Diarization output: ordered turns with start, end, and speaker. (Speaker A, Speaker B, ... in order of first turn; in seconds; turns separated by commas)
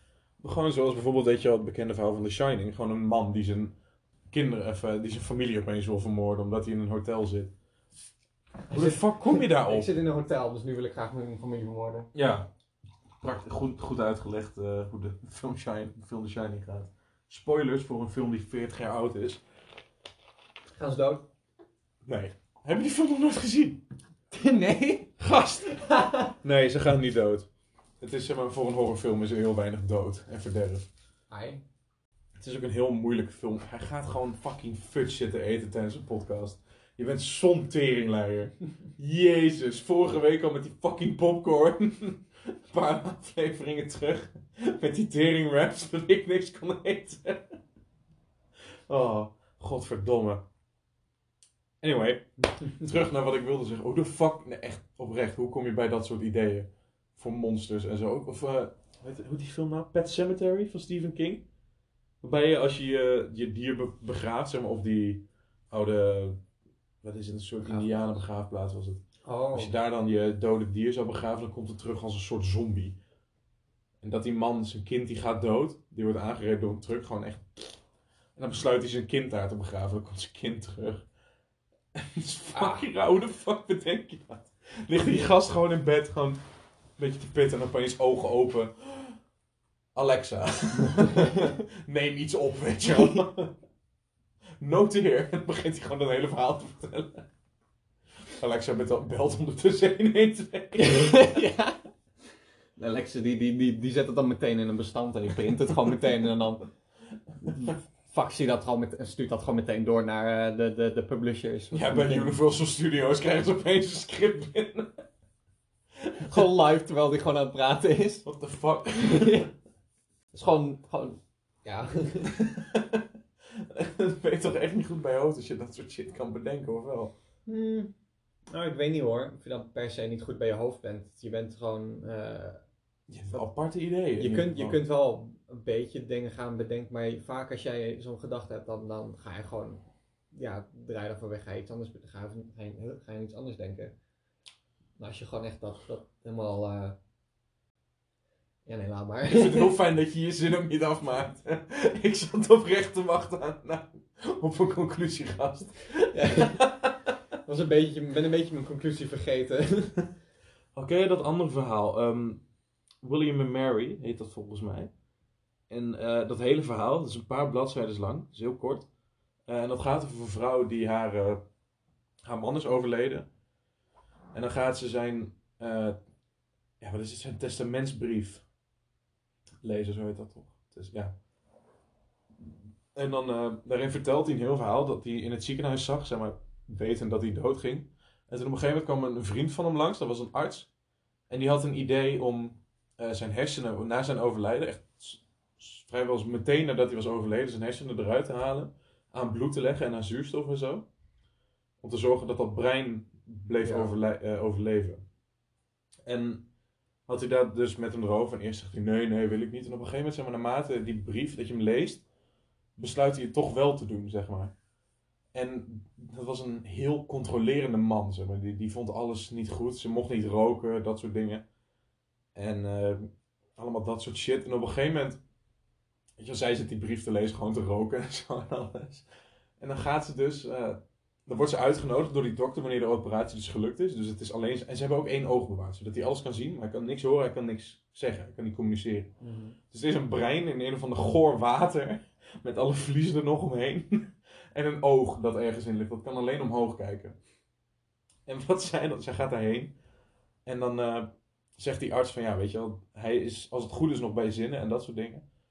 Speaker A: 0.4-3.7, Speaker A: 4.3-7.5, Speaker B: 8.7-12.1, Speaker A: 8.7-9.9, Speaker A: 12.1-12.5, Speaker A: 13.2-19.4, Speaker B: 20.7-21.2, Speaker A: 22.0-23.8, Speaker B: 24.3-25.1, Speaker A: 25.2-27.5, Speaker B: 25.7-26.3, Speaker A: 28.0-30.9, Speaker B: 31.3-31.6, Speaker A: 32.4-47.6, Speaker A: 48.9-50.4, Speaker A: 51.8-61.5, Speaker A: 62.2-66.4, Speaker A: 67.0-69.0, Speaker B: 67.6-68.2, Speaker B: 69.2-69.7, Speaker A: 69.5-73.0, Speaker A: 74.0-77.8, Speaker A: 78.3-81.0, Speaker A: 81.9-86.4, Speaker A: 87.0-89.2, Speaker A: 89.9-93.5, Speaker B: 91.0-91.3, Speaker A: 94.6-97.2, Speaker A: 98.3-101.4, Speaker B: 100.7-101.8, Speaker B: 102.8-106.7, Speaker B: 107.4-112.4, Speaker A: 107.5-107.7, Speaker A: 111.7-115.0, Speaker A: 116.0-116.5, Speaker B: 116.2-118.2, Speaker A: 118.2-119.5, Speaker B: 119.0-119.5, Speaker B: 120.3-122.3, Speaker A: 122.2-127.1, Speaker B: 127.5-127.9, Speaker B: 128.5-132.6, Speaker A: 133.1-134.8, Speaker B: 134.2-143.9, Speaker B: 145.0-147.0, Speaker B: 148.7-149.7, Speaker A: 149.3-157.1, Speaker B: 156.1-156.6, Speaker B: 157.4-160.1, Speaker A: 160.7-162.4, Speaker A: 163.0-164.9, Speaker A: 165.7-168.9, Speaker A: 169.5-171.4, Speaker A: 172.2-173.3, Speaker A: 174.3-176.0, Speaker A: 176.8-178.4, Speaker A: 179.6-181.1, Speaker A: 182.4-190.7, Speaker A: 191.3-200.8, Speaker A: 201.8-205.0, Speaker B: 203.6-203.9, Speaker A: 206.1-206.5, Speaker A: 207.1-212.0, Speaker A: 212.8-214.5, Speaker A: 215.3-221.4, Speaker A: 222.3-225.2, Speaker A: 226.2-229.0, Speaker A: 229.6-239.1, Speaker B: 239.2-239.6, Speaker A: 239.7-247.2, Speaker A: 248.2-249.7, Speaker A: 250.4-255.2